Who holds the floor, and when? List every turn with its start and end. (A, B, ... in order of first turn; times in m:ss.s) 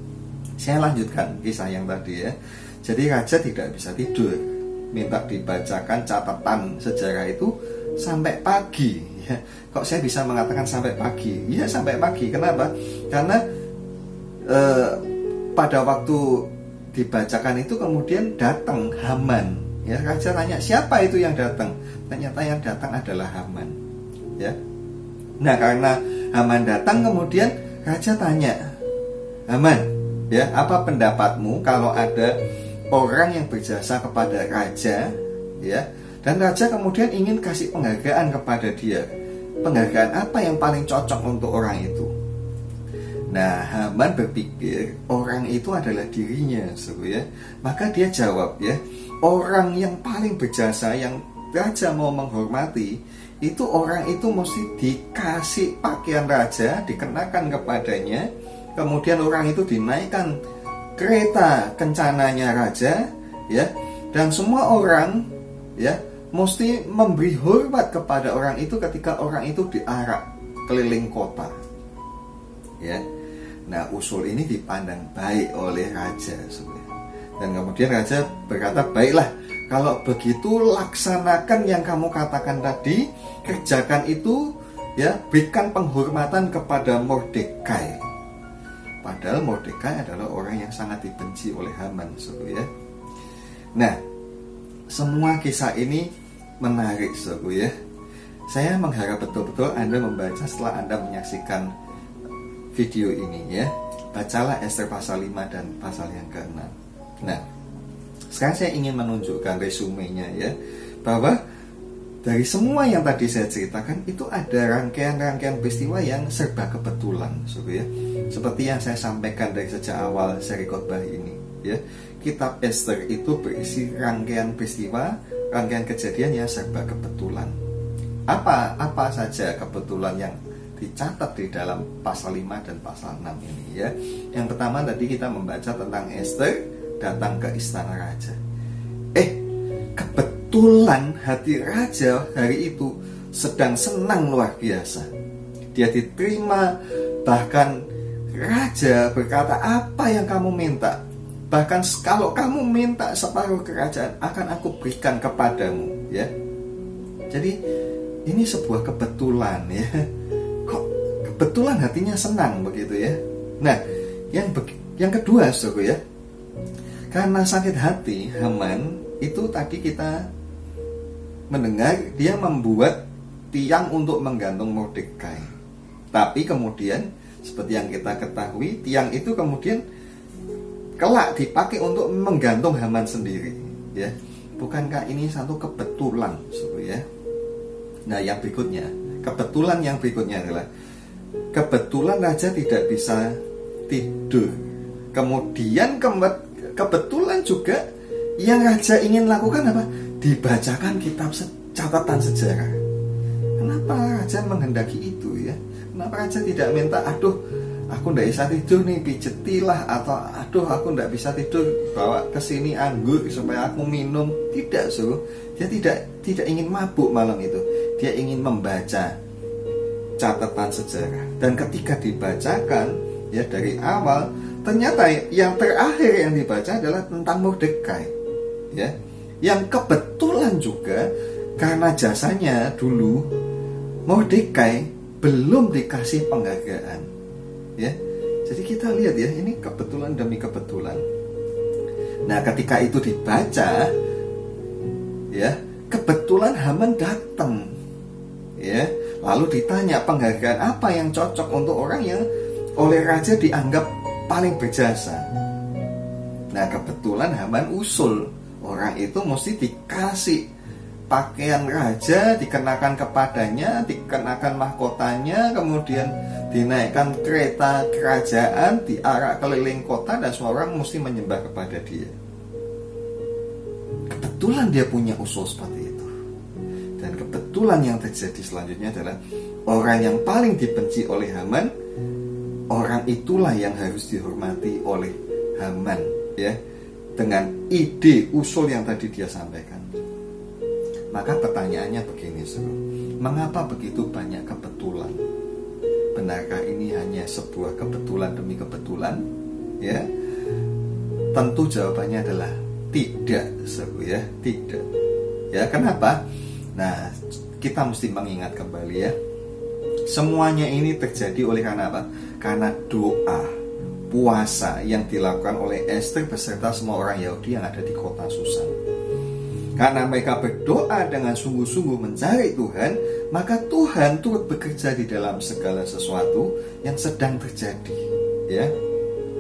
0:00.6-0:13.4 A
0:14.5-0:15.0 A
0:15.6-0:23.8 A
0:25.4-0:28.7 A
0:29.5-0:32.4 A
0:32.9-0:39.1 A
0:39.6-0:42.1 A
0:43.3-1:00.4 A
1:01.0-1:11.5 A
1:13.7-1:16.9 A
1:17.4-1:28.0 A
1:29.0-1:32.7 A
1:34.9-1:36.1 A
1:36.6-1:37.7 A
1:38.5-1:41.7 A
1:42.7-1:47.4 A
1:48.3-1:51.4 A
1:52.2-2:07.5 A
2:08.3-2:18.4 A
2:19.2-2:19.4 A
2:20.0-2:25.1 A
2:25.8-2:26.7 A
2:27.3-2:27.8 A
2:28.3-2:31.0 A
2:31.5-2:36.3 A
2:37.3-2:37.6 A
2:38.3-2:40.0 A
2:40.7-2:43.8 A
2:44.3-2:46.0 A
2:47.1-2:50.3 A
2:51.5-2:53.0 A
2:53.5-2:55.5 A
2:56.1-2:59.8 A
3:01.0-3:07.0 A
3:08.1-3:10.7 A
3:11.5-3:13.4 A
3:13.9-3:14.6 A
3:15.1-3:17.8 A
3:18.4-3:22.8 A
3:23.6-3:27.4 A
3:27.9-3:39.2 A
3:40.2-3:48.1 A
3:48.7-3:53.3 A
3:54.1-3:57.1 A
3:58.5-4:01.0 A
4:02.3-4:03.9 A
4:05.3-4:07.7 A
4:08.6-4:12.2 A
4:12.8-4:15.3 A
4:16.5-4:20.4 A
4:21.1-4:32.1 A
4:34.1-4:36.1 A
4:37.0-4:41.7 A
4:42.7-4:46.6 A
4:47.2-4:49.9 A
4:51.1-4:55.2 A
4:56.2-4:59.2 A
4:59.8-5:00.1 A
5:01.3-5:04.9 A
5:05.5-5:06.2 A
5:06.8-5:09.1 A
5:10.1-5:13.6 A
5:14.1-5:18.7 A
5:19.8-5:28.7 A